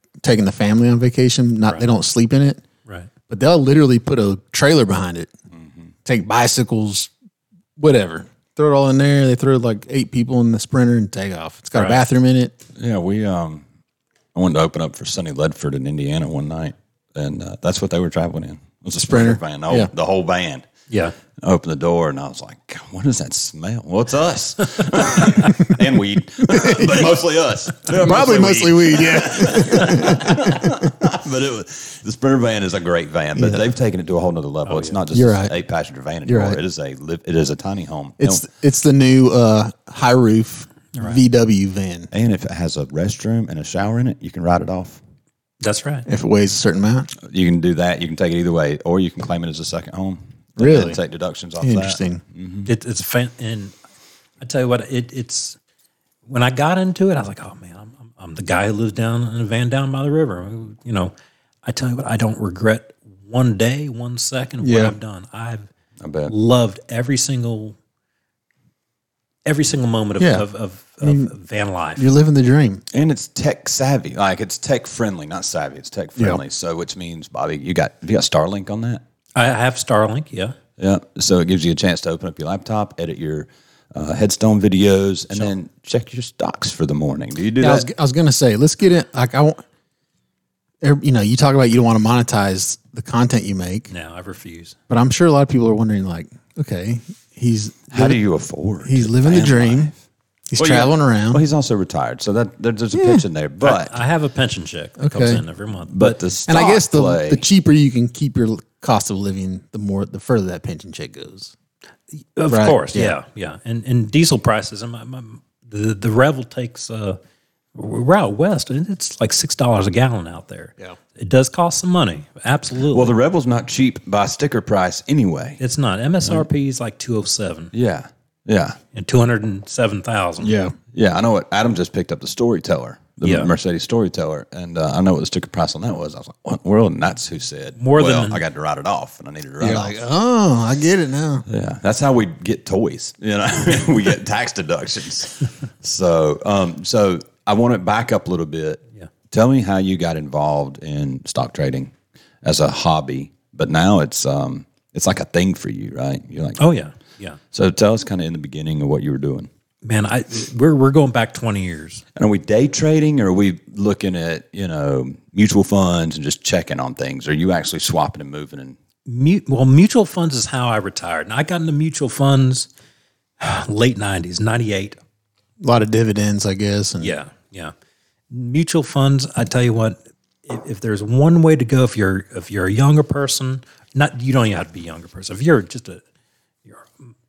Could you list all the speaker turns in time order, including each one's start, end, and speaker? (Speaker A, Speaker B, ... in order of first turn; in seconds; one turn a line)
Speaker A: 0.2-2.6
Speaker A: 3.3-5.3
Speaker B: 5.5-5.9
Speaker A: 6.0-7.1
Speaker A: 7.8-12.6
Speaker C: 11.7-12.0
Speaker B: 12.8-13.6
Speaker B: 14.3-20.7
Speaker A: 19.0-19.9
Speaker C: 20.9-21.1
Speaker B: 21.4-38.4
Speaker A: 26.4-27.1
Speaker A: 27.9-30.9
Speaker A: 33.4-33.6
Speaker C: 34.6-35.0
Speaker A: 35.1-35.5
Speaker A: 36.2-36.6
Speaker A: 38.2-42.1
Speaker C: 40.9-41.2
Speaker B: 42.1-45.0
Speaker C: 45.6-46.1
Speaker A: 46.1-47.1
Speaker B: 47.2-52.7
Speaker A: 50.6-51.0
Speaker A: 51.6-52.2
Speaker C: 52.6-53.7
Speaker C: 54.4-55.6
Speaker C: 56.3-61.1
Speaker C: 61.6-65.7
Speaker A: 64.6-64.9
Speaker B: 66.0-66.3
Speaker C: 66.3-67.8
Speaker C: 69.5-72.1
Speaker A: 70.2-70.5
Speaker A: 71.0-71.3
Speaker A: 72.0-72.8
Speaker B: 72.9-79.0
Speaker A: 76.2-76.4
Speaker C: 79.3-80.5
Speaker B: 80.8-87.9
Speaker A: 87.5-89.6
Speaker A: 90.8-93.9
Speaker C: 93.9-94.8
Speaker A: 94.9-98.2
Speaker B: 97.9-100.0
Speaker A: 98.8-99.9
Speaker A: 100.5-101.4
Speaker B: 100.5-104.0
Speaker A: 102.9-103.2
Speaker C: 103.6-106.2
Speaker A: 105.0-105.4
Speaker B: 105.9-107.4
Speaker A: 106.5-111.5
Speaker C: 112.1-117.2
Speaker A: 112.5-113.2
Speaker C: 117.7-123.1
Speaker B: 122.9-125.6
Speaker C: 125.6-127.7
Speaker B: 127.7-128.8
Speaker C: 128.9-130.5
Speaker A: 130.4-130.8
Speaker B: 130.9-140.0
Speaker C: 133.2-133.5
Speaker C: 137.8-138.4
Speaker A: 139.6-141.4
Speaker B: 141.5-156.6
Speaker C: 156.6-157.4
Speaker B: 157.5-159.5
Speaker C: 159.8-162.0
Speaker B: 162.2-168.8
Speaker C: 169.1-172.7
Speaker C: 173.4-175.0
Speaker A: 175.6-177.2
Speaker C: 177.0-177.7
Speaker C: 178.3-186.0